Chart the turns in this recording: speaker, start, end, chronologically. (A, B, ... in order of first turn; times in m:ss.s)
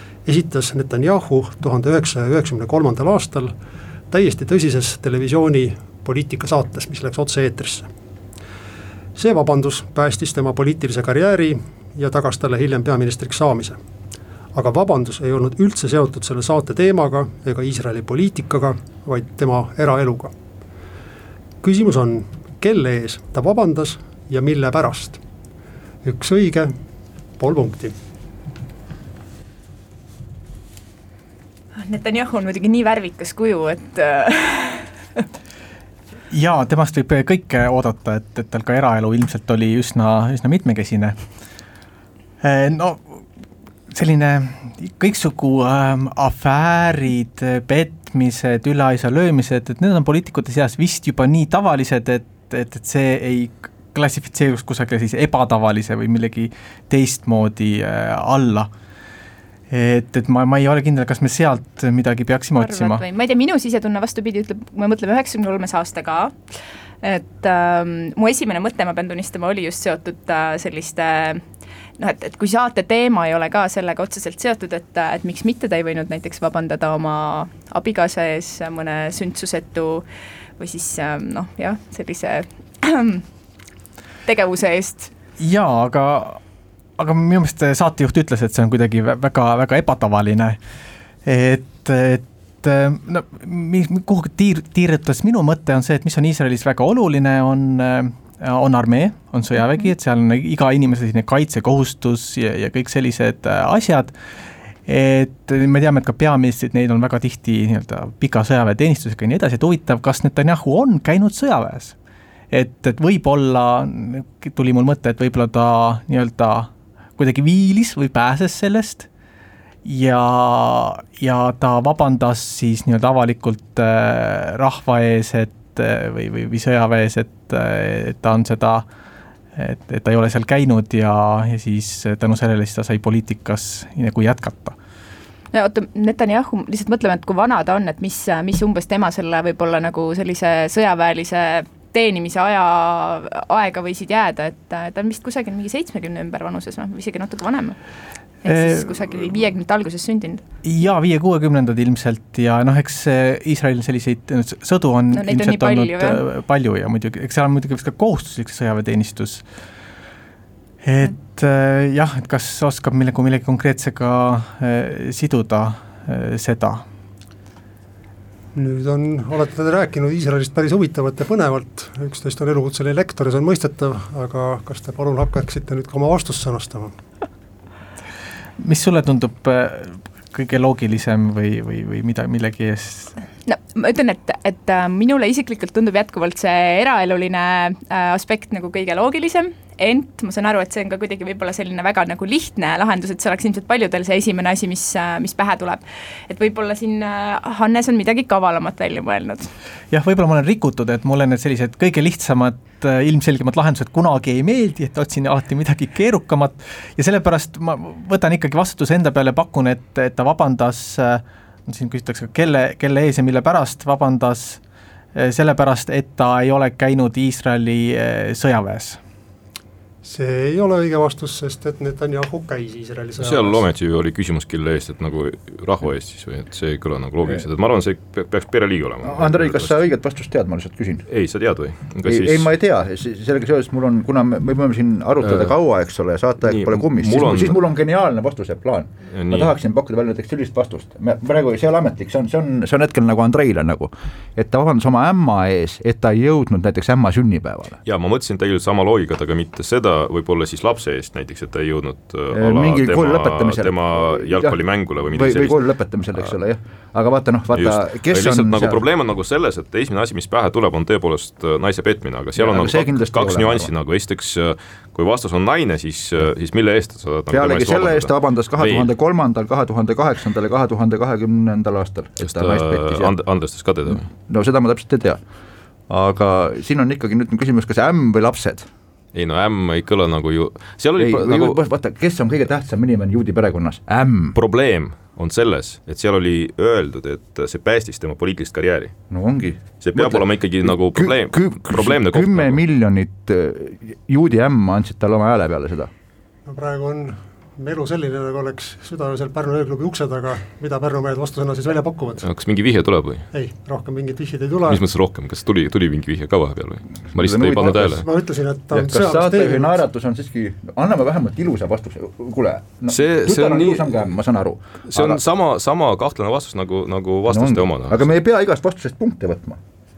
0:00.3-0:03.5 A
0:04.1-0:07.9 A
0:09.2-0:13.8 A
0:14.5-0:20.3 A
0:21.6-0:25.2 A
0:26.0-0:26.7 A
0:27.4-0:28.0 A
0:31.8-0:35.2 B
0:36.3-0:41.2 C
0:42.4-0:43.2 C
0:43.9-0:58.7 C
0:59.7-1:03.0 C
1:02.6-1:11.4 B
1:12.0-1:20.0 B
1:20.6-1:23.2 B
1:24.3-1:25.1 B
1:25.4-1:26.4 C
1:27.0-1:30.6 C
1:31.2-1:44.1 C
1:44.9-1:52.0 C
1:52.5-1:59.1 C
1:59.8-2:08.8 C
2:09.6-2:14.8 C
2:15.5-2:27.8 B
2:28.4-2:30.4 B
2:28.5-2:28.9 C
2:30.6-2:39.4 C
2:35.1-2:36.2 B
2:40.8-2:46.8 C
2:48.6-2:56.9 A
2:58.6-3:03.1 C
3:03.5-3:19.5 B
3:19.9-3:34.6 C
3:35.2-3:39.0 C
3:40.0-3:43.6 A
3:43.2-3:49.8 D
3:49.0-3:51.1 E
3:51.1-3:52.5 D
3:52.0-4:07.8 E
3:55.2-3:55.5 D
3:56.4-3:57.6 D
3:59.1-3:59.5 D
4:07.8-4:15.7 D
4:12.3-4:14.6 E
4:15.1-4:18.8 E
4:17.5-4:28.9 D
4:22.4-4:23.7 E
4:27.3-4:33.1 E
4:32.2-4:34.1 D
4:34.2-4:35.2 E
4:35.9-4:38.7 E
4:39.1-4:41.6 D
4:41.0-4:44.4 E
4:44.3-4:49.0 D
4:49.1-4:55.9 E
4:49.8-4:52.6 D
4:56.5-5:02.3 A
5:02.2-5:03.3 D
5:03.3-5:04.8 A
5:04.7-5:08.0 D
5:07.1-5:08.0 E
5:07.6-5:09.8 A
5:08.7-5:15.2 E
5:12.9-5:14.1 D
5:14.9-5:18.1 D
5:17.3-5:19.6 E